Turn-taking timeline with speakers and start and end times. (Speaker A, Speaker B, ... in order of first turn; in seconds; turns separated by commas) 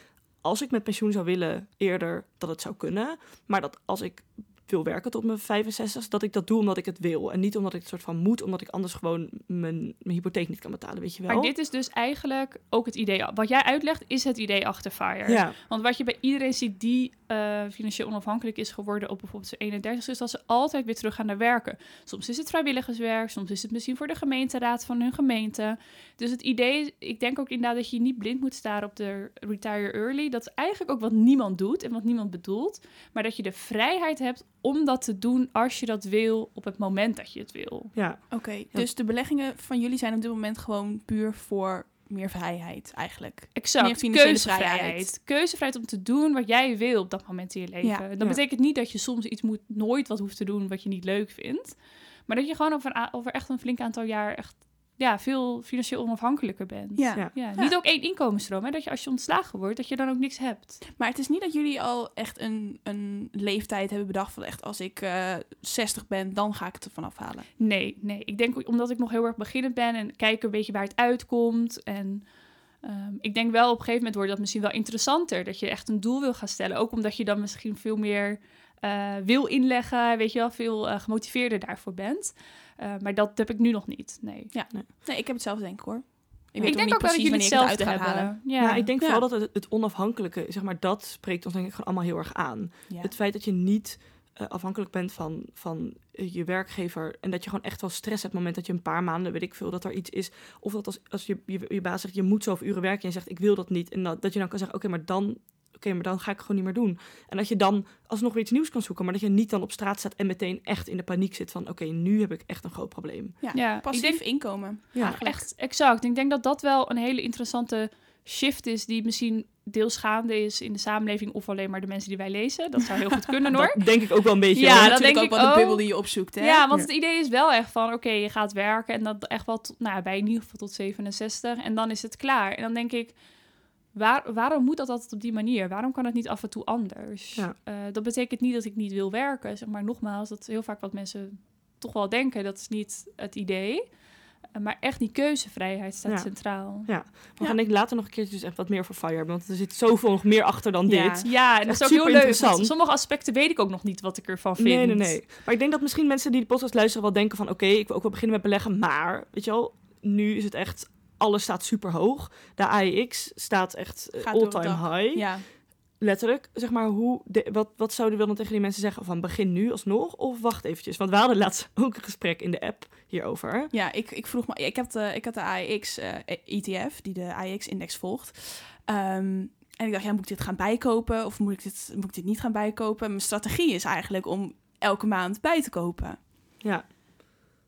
Speaker A: 0.3-11.5, Speaker B: 11.3-37.9, Speaker A: 15.2-15.6, Speaker A: 37.9-38.9, Speaker C: 38.3-45.1, Speaker B: 43.5-60.8, Speaker C: 57.0-57.7, Speaker C: 61.0-67.5, Speaker B: 67.6-84.5, Speaker C: 84.5-89.2, Speaker B: 86.6-88.9, Speaker A: 88.6-113.4, Speaker C: 113.4-115.5, Speaker B: 113.5-146.9, Speaker A: 114.9-115.2, Speaker A: 123.5-125.0, Speaker C: 124.6-126.6, Speaker A: 146.0-152.7, Speaker C: 150.8-151.3, Speaker B: 151.2-155.2, Speaker A: 154.6-173.7, Speaker C: 164.2-165.5, Speaker C: 173.7-186.2